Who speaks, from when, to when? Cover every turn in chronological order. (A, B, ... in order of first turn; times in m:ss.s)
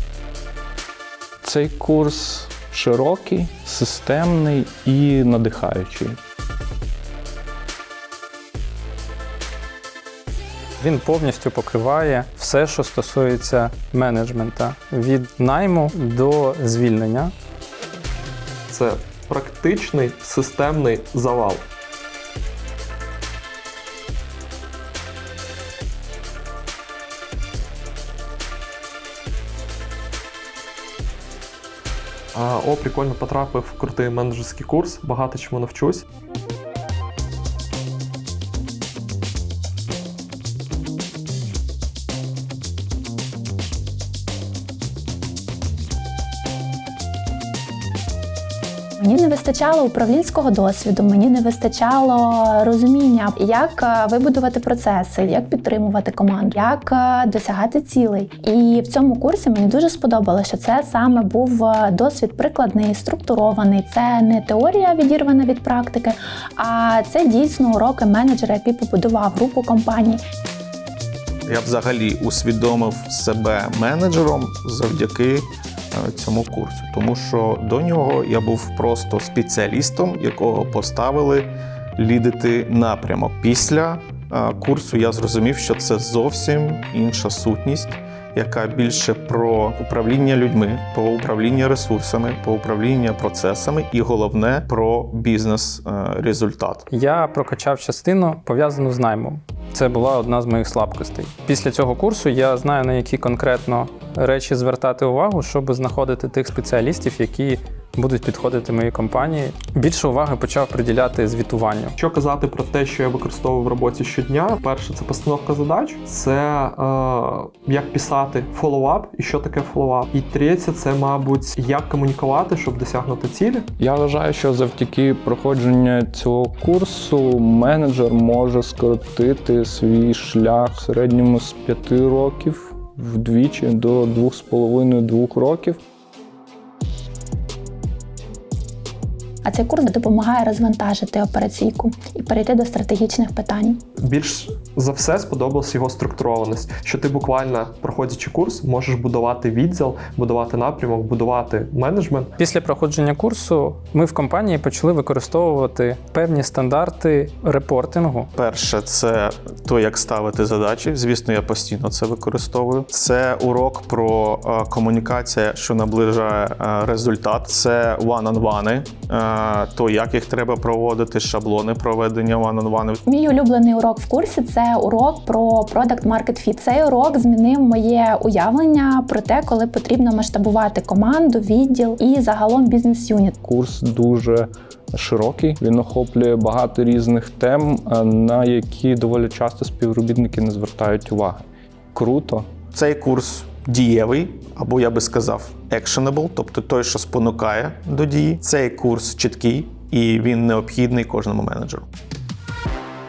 0:01.4-0:06.2 A
0:10.8-0:17.3 B
0:18.7-0:21.7 C
0:32.3-0:36.0 C
0:49.0-1:10.2 D
1:11.4-1:36.8 E
1:36.9-1:51.9 B
1:52.0-2:03.6 C
2:03.8-2:15.8 A
2:19.4-2:23.8 D
2:24.0-2:32.3 C
2:32.4-2:38.3 B
2:38.3-2:53.0 E
2:53.0-3:03.4 D
3:03.4-3:12.5 A
3:12.7-3:21.9 E